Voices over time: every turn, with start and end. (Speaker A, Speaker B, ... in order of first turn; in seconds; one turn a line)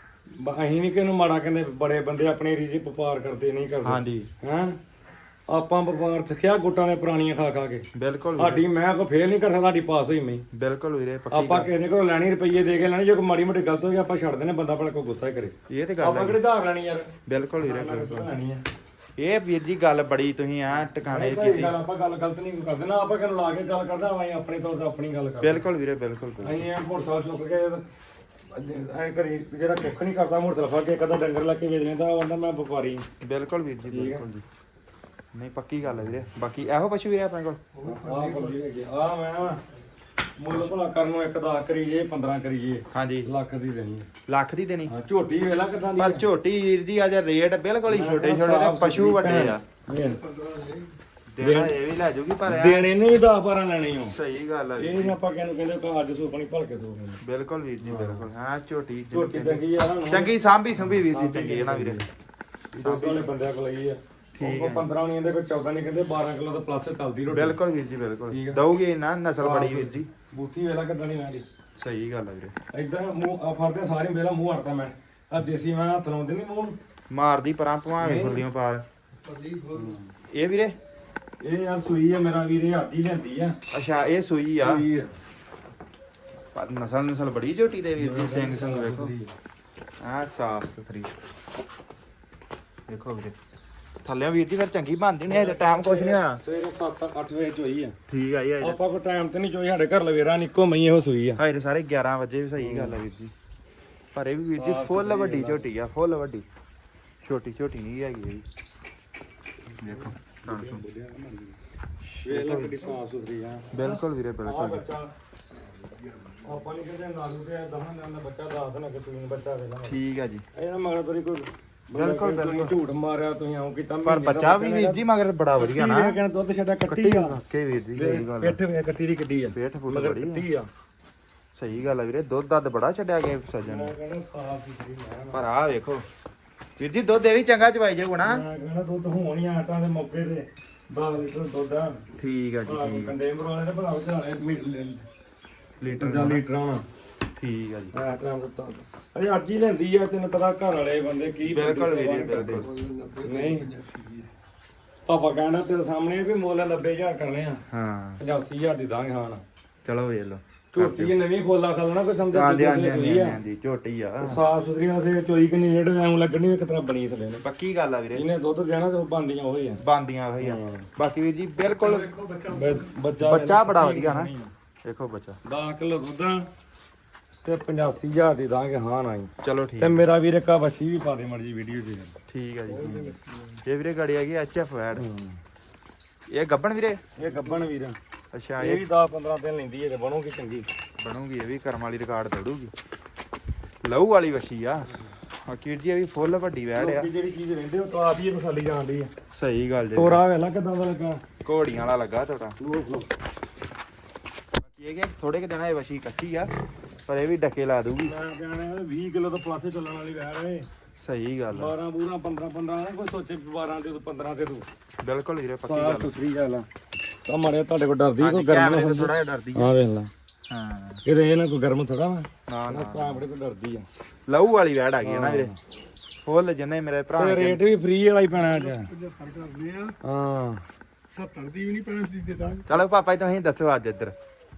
Speaker A: 0.3-4.8
Speaker B: 3.8-4.3
Speaker A: 5.5-7.8
Speaker B: 7.9-8.6
Speaker A: 8.4-10.5
Speaker B: 10.5-11.7
Speaker A: 11.3-18.6
Speaker B: 15.7-16.4
Speaker B: 17.2-18.3
Speaker B: 19.2-21.8
Speaker A: 20.9-25.6
Speaker B: 25.4-26.7
Speaker A: 26.4-27.8
Speaker A: 28.5-33.1
Speaker B: 33.2-34.4
Speaker A: 33.9-34.2
Speaker B: 35.3-37.6
Speaker C: 37.7-38.6
Speaker A: 37.8-39.6
Speaker A: 40.4-44.1
Speaker B: 42.9-43.3
Speaker B: 44.3-44.9
Speaker A: 44.9-46.2
Speaker B: 45.9-49.6
Speaker A: 47.9-50.2
Speaker C: 50.1-50.9
Speaker B: 51.3-52.9
Speaker A: 51.4-51.8
Speaker A: 52.4-54.1
Speaker B: 54.0-55.1
Speaker A: 54.8-57.2
Speaker B: 57.2-62.0
Speaker A: 57.8-58.3
Speaker A: 59.1-62.1
Speaker A: 62.7-67.6
Speaker B: 62.8-63.3
Speaker B: 64.3-64.9
Speaker B: 67.3-70.1
Speaker A: 68.3-68.6
Speaker A: 69.4-71.5
Speaker B: 71.8-72.5
Speaker A: 72.7-76.8
Speaker B: 77.1-78.8
Speaker A: 78.0-78.5
Speaker C: 79.2-80.0
Speaker A: 79.7-80.1
Speaker B: 80.3-80.8
Speaker A: 81.4-83.6
Speaker B: 83.7-84.8
Speaker A: 84.6-85.1
Speaker B: 86.5-89.1
Speaker A: 88.0-89.3
Speaker B: 90.0-91.1
Speaker B: 92.9-93.3
Speaker B: 94.0-96.4
Speaker A: 95.3-98.0
Speaker B: 98.1-98.8
Speaker A: 98.6-101.4
Speaker B: 101.4-103.3
Speaker A: 102.6-103.0
Speaker B: 104.1-106.4
Speaker A: 104.5-105.7
Speaker B: 107.2-108.4
Speaker B: 109.8-110.8
Speaker A: 109.8-111.6
Speaker B: 112.0-113.0
Speaker A: 112.2-115.1
Speaker B: 113.7-114.8
Speaker A: 116.4-120.0
Speaker B: 119.8-120.4
Speaker A: 120.5-127.4
Speaker B: 121.9-122.8
Speaker B: 124.0-126.2
Speaker B: 126.8-128.6
Speaker A: 128.0-130.7
Speaker B: 129.5-130.4
Speaker B: 131.6-133.9
Speaker A: 133.6-135.4
Speaker B: 135.3-136.0
Speaker B: 136.8-138.4
Speaker A: 138.2-142.1
Speaker B: 142.2-143.2
Speaker A: 142.7-145.1
Speaker B: 145.8-146.4
Speaker A: 145.9-146.8
Speaker B: 147.3-148.0
Speaker A: 147.9-153.8
Speaker B: 151.4-152.7
Speaker C: 152.5-154.3
Speaker A: 155.1-157.6
Speaker B: 157.7-158.2
Speaker A: 158.2-159.4
Speaker B: 159.8-161.2
Speaker A: 160.7-163.4
Speaker B: 162.3-164.4
Speaker A: 164.2-167.4
Speaker B: 167.4-168.3
Speaker A: 168.1-169.8
Speaker B: 169.8-172.1
Speaker A: 170.4-170.9
Speaker C: 171.8-172.9
Speaker A: 172.4-174.5
Speaker B: 173.2-174.3
Speaker B: 174.8-175.4
Speaker A: 175.4-176.5
Speaker A: 177.4-182.2
Speaker B: 179.4-180.0
Speaker B: 182.3-183.1
Speaker C: 182.7-183.6
Speaker A: 182.8-183.1
Speaker B: 183.6-185.1
Speaker A: 184.9-185.4
Speaker B: 186.3-187.0
Speaker A: 187.2-188.0
Speaker B: 188.3-188.8
Speaker A: 188.6-190.7
Speaker B: 191.0-192.7
Speaker B: 193.8-197.1
Speaker A: 196.7-199.1
Speaker B: 199.3-200.2
Speaker A: 199.9-201.2
Speaker B: 201.4-202.6
Speaker A: 202.6-203.1
Speaker B: 204.6-206.5
Speaker B: 207.1-208.1
Speaker A: 208.0-210.7
Speaker B: 211.0-211.7
Speaker A: 211.5-214.7
Speaker B: 215.0-216.1
Speaker A: 215.6-216.7
Speaker A: 217.3-220.1
Speaker B: 218.2-219.7
Speaker B: 220.5-221.0
Speaker A: 221.0-223.9
Speaker B: 222.5-223.2
Speaker B: 224.3-225.5
Speaker A: 225.0-225.6
Speaker B: 226.2-227.6
Speaker A: 227.2-228.9
Speaker C: 228.4-230.0
Speaker A: 230.0-230.7
Speaker C: 231.1-232.7
Speaker B: 232.7-234.1